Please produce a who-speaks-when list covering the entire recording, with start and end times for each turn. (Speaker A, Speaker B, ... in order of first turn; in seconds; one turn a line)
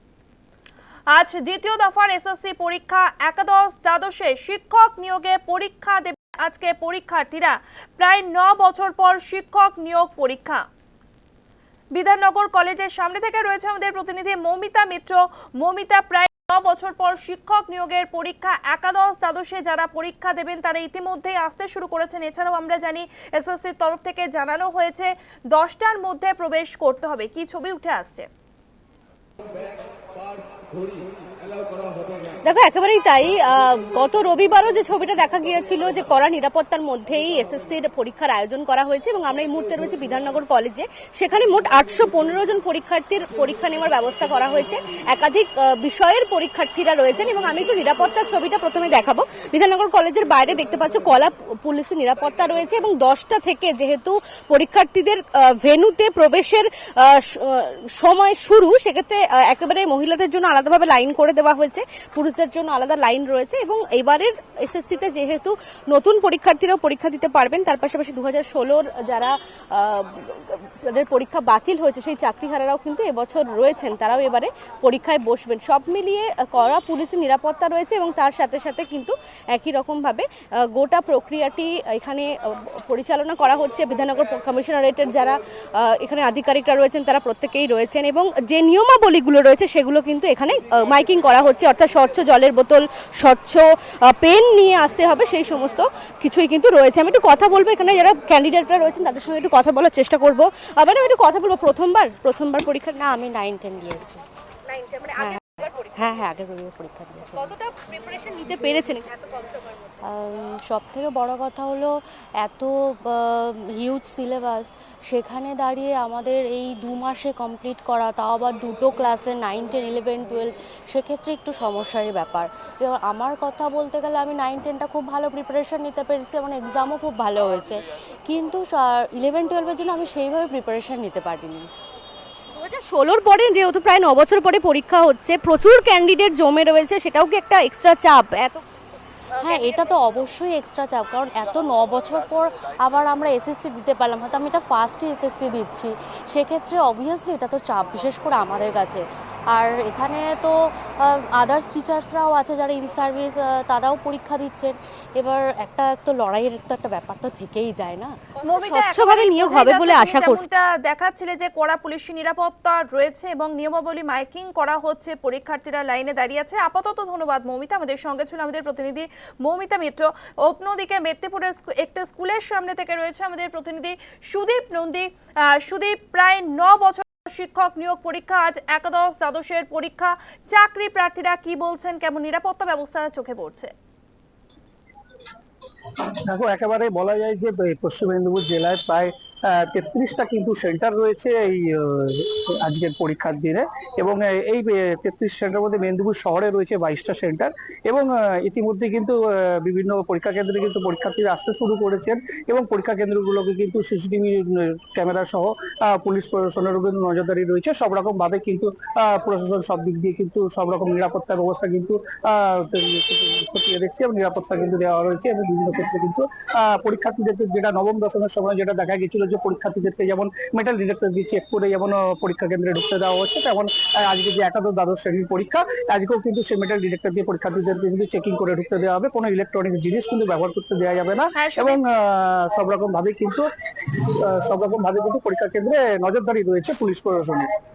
Speaker A: 1.1-10.7
Speaker A: 11.9-28.3
Speaker B: 32.4-103.0
Speaker C: 102.9-104.2
Speaker B: 104.7-106.0
Speaker C: 105.9-107.5
Speaker B: 107.3-109.6
Speaker C: 110.0-131.7
Speaker B: 132.5-138.6
Speaker C: 139.4-149.0
Speaker C: 149.5-158.1
Speaker A: 158.4-183.7
Speaker B: 158.5-160.4
Speaker D: 186.1-237.5
Speaker A: 231.3-231.8